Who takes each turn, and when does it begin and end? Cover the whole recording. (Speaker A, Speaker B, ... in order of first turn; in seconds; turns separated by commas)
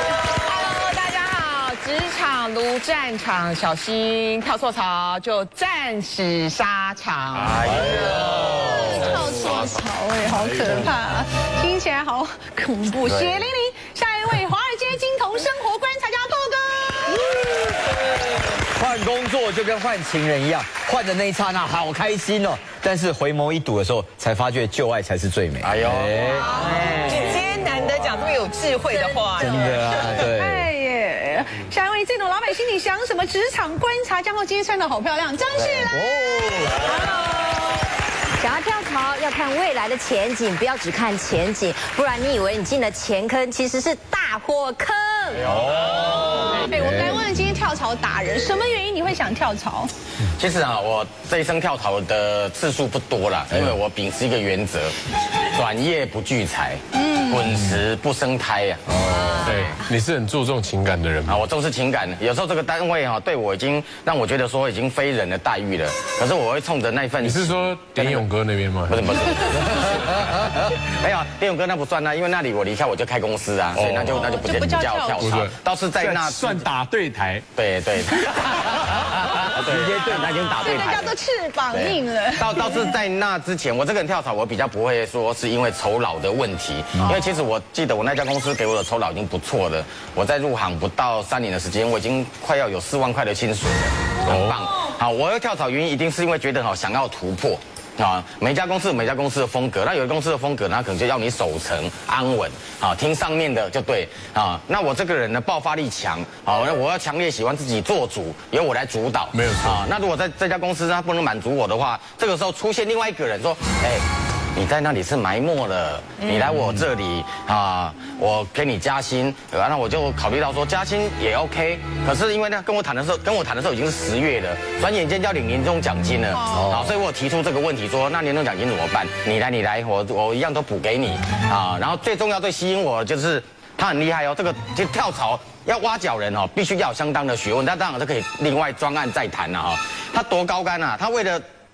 Speaker A: 0.3-7.6, Speaker B: 7.4-9.1, Speaker C: 7.7-8.2, Speaker D: 8.3-17.3, Speaker E: 8.4-10.9, Speaker C: 18.7-26.5, Speaker B: 25.6-27.4, Speaker A: 26.4-29.8, Speaker F: 28.9-30.0, Speaker C: 29.4-30.7, Speaker D: 29.9-37.5, Speaker C: 35.6-37.0, Speaker F: 38.4-45.4, Speaker B: 45.4-46.5, Speaker C: 45.5-47.2, Speaker D: 46.0-49.9, Speaker B: 50.4-55.0, Speaker B: 55.5-59.7, Speaker D: 56.9-57.4, Speaker C: 58.9-59.5, Speaker E: 59.4-61.4, Speaker B: 61.3-68.2, Speaker E: 67.2-69.1, Speaker B: 68.9-76.7, Speaker E: 73.7-74.3, Speaker D: 74.2-75.3, Speaker E: 75.2-77.4, Speaker B: 77.5-81.1, Speaker C: 79.6-80.4, Speaker D: 80.6-82.9, Speaker B: 81.7-141.4, Speaker E: 94.2-94.6, Speaker E: 109.3-109.9, Speaker D: 126.3-126.8, Speaker C: 126.5-126.9